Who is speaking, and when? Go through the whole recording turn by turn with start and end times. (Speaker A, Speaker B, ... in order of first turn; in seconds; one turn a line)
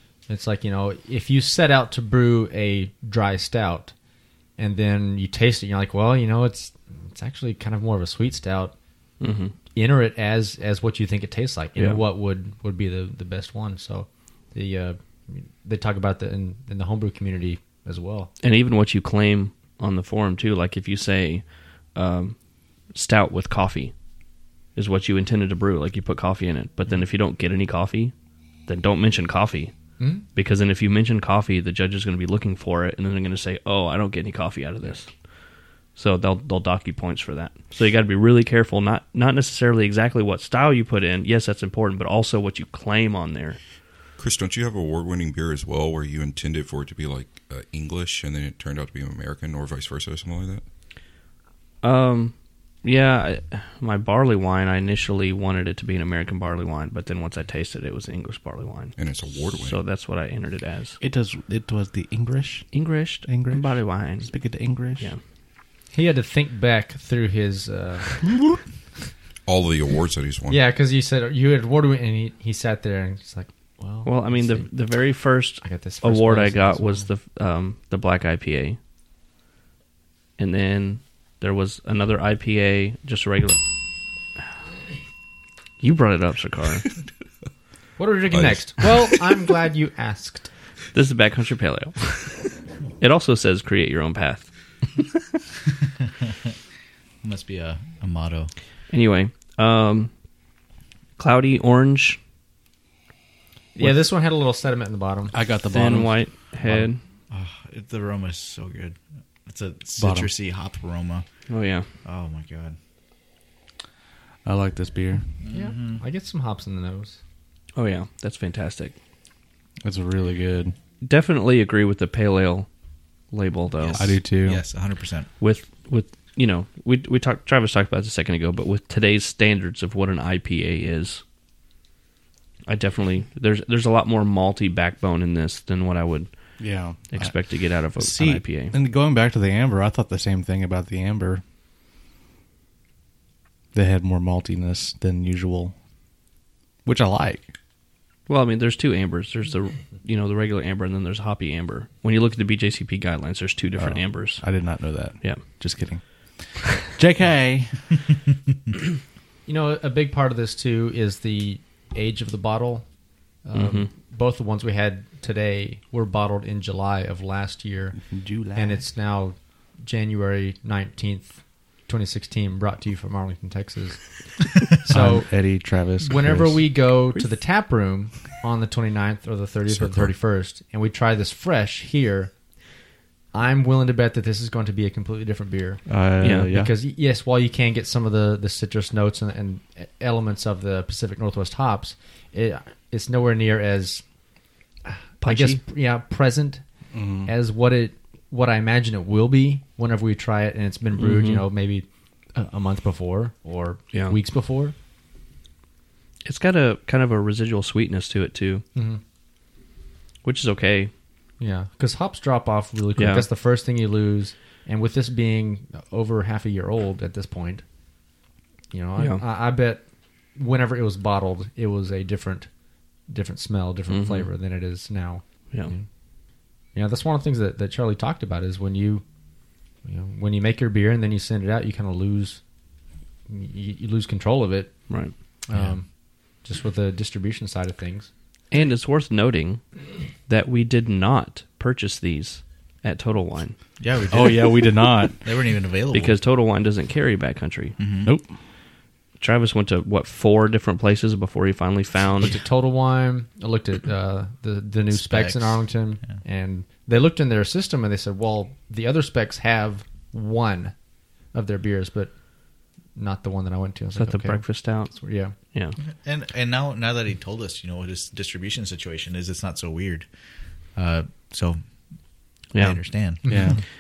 Speaker A: 0.3-3.9
Speaker A: 4.6-8.8
Speaker B: 9.2-9.6
Speaker A: 9.8-18.3
Speaker B: 11.8-12.0
Speaker B: 18.4-22.4
Speaker B: 22.9-23.9
Speaker B: 24.8-28.1
Speaker B: 28.7-29.7
Speaker A: 30.0-30.2
Speaker B: 30.4-35.1
Speaker B: 36.0-43.6
Speaker C: 44.2-50.6
Speaker B: 51.8-61.0
Speaker C: 59.0-59.8
Speaker D: 61.0-65.1
Speaker B: 62.7-65.2
Speaker A: 65.9-68.3
Speaker C: 69.5-70.6
Speaker A: 70.5-74.7
Speaker B: 74.0-78.8
Speaker A: 75.6-77.1
Speaker B: 80.4-83.6
Speaker B: 85.8-86.9
Speaker A: 88.0-90.5
Speaker C: 88.3-89.0
Speaker B: 90.9-95.0
Speaker E: 97.2-98.5
Speaker B: 98.9-100.1
Speaker B: 101.2-102.2
Speaker A: 103.8-105.4
Speaker D: 105.3-106.9
Speaker B: 105.7-107.0
Speaker E: 107.3-111.3
Speaker D: 110.0-110.3
Speaker B: 111.5-111.9
Speaker E: 112.0-112.8
Speaker D: 114.5-115.3
Speaker E: 115.4-116.0
Speaker A: 115.5-117.2
Speaker B: 117.8-119.0
Speaker D: 119.8-120.7
Speaker B: 121.0-122.7
Speaker B: 123.3-124.0
Speaker E: 123.8-125.3
Speaker D: 124.0-124.7
Speaker B: 125.4-131.2
Speaker B: 132.7-138.8
Speaker D: 136.6-141.4
Speaker D: 143.7-145.7
Speaker D: 146.8-147.5
Speaker B: 148.3-155.6
Speaker D: 153.8-158.1
Speaker A: 159.5-162.9
Speaker A: 163.4-168.0
Speaker B: 163.5-163.9
Speaker D: 167.9-168.8
Speaker A: 168.5-174.2
Speaker A: 174.8-182.3
Speaker D: 174.9-177.0
Speaker C: 179.7-180.1
Speaker A: 183.3-185.8
Speaker D: 185.9-186.7
Speaker B: 186.2-186.5
Speaker A: 186.5-194.0
Speaker A: 194.9-196.7
Speaker B: 195.2-195.6
Speaker D: 196.9-197.3
Speaker A: 197.3-204.8
Speaker B: 201.0-201.4
Speaker B: 203.9-204.2
Speaker B: 206.2-208.6
Speaker A: 208.8-209.0
Speaker B: 210.2-210.9
Speaker A: 211.4-217.6
Speaker B: 213.0-213.3
Speaker A: 218.7-219.8
Speaker A: 220.3-222.5
Speaker A: 223.1-225.9
Speaker B: 223.9-224.3
Speaker A: 226.7-229.0
Speaker A: 229.8-232.4
Speaker A: 233.3-234.9
Speaker A: 235.5-235.9
Speaker A: 236.4-238.1
Speaker B: 238.5-239.6
Speaker B: 240.3-243.6
Speaker E: 243.8-246.2
Speaker D: 244.1-245.3
Speaker B: 245.9-247.8
Speaker E: 247.8-248.1
Speaker D: 248.0-248.3
Speaker B: 249.2-252.3
Speaker A: 252.2-260.8
Speaker E: 254.9-256.2
Speaker A: 261.3-265.4
Speaker B: 263.9-265.0
Speaker B: 265.5-265.8
Speaker E: 265.8-270.1
Speaker E: 270.7-271.6
Speaker E: 272.5-273.6
Speaker B: 272.5-272.8
Speaker A: 273.2-273.6
Speaker D: 273.3-273.6